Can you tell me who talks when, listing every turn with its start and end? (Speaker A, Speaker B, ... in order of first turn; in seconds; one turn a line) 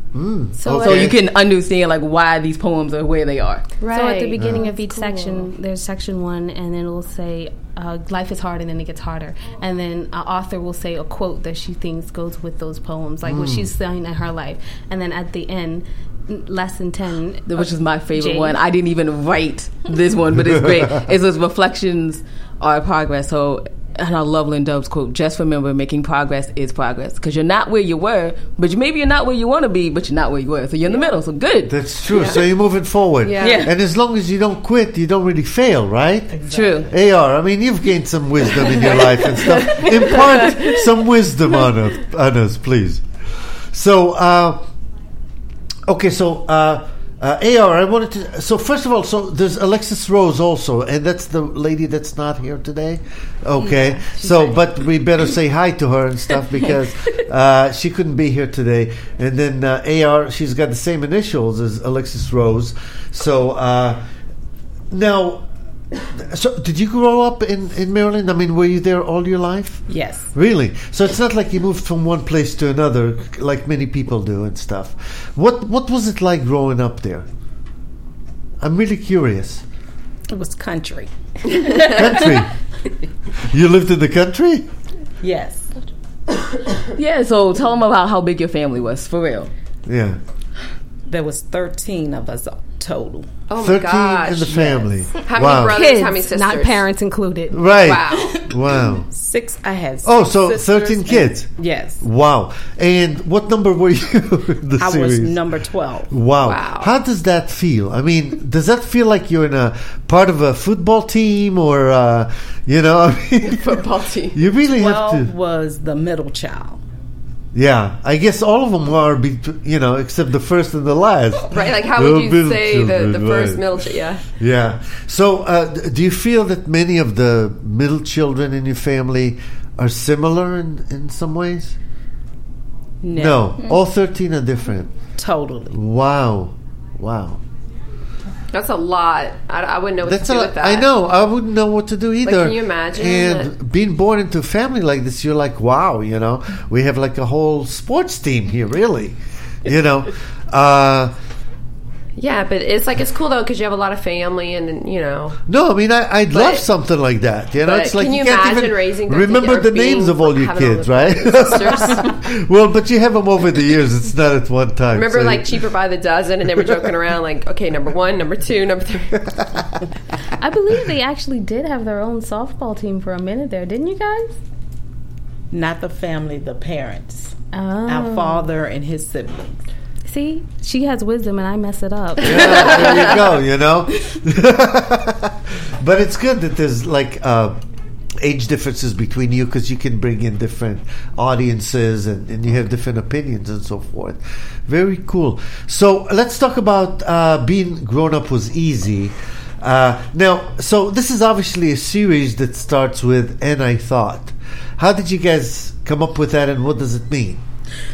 Speaker A: 0.1-1.2
Speaker B: 0.6-1.1
Speaker C: 0.8-3.7
Speaker D: 3.8-5.5
Speaker B: 3.9-18.6
Speaker A: 4.4-4.7
Speaker A: 13.2-13.7
Speaker C: 17.5-31.8
Speaker A: 31.7-43.0
Speaker D: 32.1-32.5
Speaker D: 33.2-33.7
Speaker C: 33.4-33.7
Speaker E: 36.3-36.9
Speaker C: 36.5-36.9
Speaker C: 39.7-40.4
Speaker A: 43.7-44.7
Speaker A: 45.9-64.0
Speaker B: 53.6-54.6
Speaker A: 64.9-65.5
Speaker A: 66.2-77.3
Speaker E: 69.9-70.3
Speaker A: 78.6-79.6
Speaker E: 80.3-82.5
Speaker A: 81.9-82.5
Speaker A: 83.5-84.7
Speaker E: 85.2-85.7
Speaker C: 87.0-89.5
Speaker A: 89.9-90.2
Speaker E: 91.1-93.3
Speaker D: 93.5-96.8
Speaker A: 93.6-95.8
Speaker E: 94.5-94.9
Speaker B: 95.6-97.7
Speaker A: 97.5-99.1
Speaker D: 97.8-98.4
Speaker E: 99.0-102.0
Speaker A: 100.0-105.4
Speaker E: 104.8-106.1
Speaker A: 106.1-113.8
Speaker D: 106.4-106.9
Speaker D: 113.4-114.4
Speaker A: 114.3-115.3
Speaker E: 114.8-116.8
Speaker A: 117.5-131.8
Speaker D: 121.5-124.2
Speaker E: 133.0-133.7
Speaker A: 133.1-134.9
Speaker E: 135.2-135.8
Speaker A: 135.7-137.4
Speaker D: 138.5-140.9
Speaker A: 140.0-151.1
Speaker D: 142.2-143.5
Speaker D: 152.2-155.4
Speaker A: 155.5-165.6
Speaker D: 156.3-156.6
Speaker D: 157.7-162.2
Speaker D: 164.9-169.3
Speaker B: 170.4-174.4
Speaker E: 175.5-177.3
Speaker B: 177.5-178.5
Speaker E: 177.9-179.6
Speaker B: 180.1-182.8
Speaker A: 182.2-187.6
Speaker D: 182.3-183.1
Speaker A: 188.2-207.4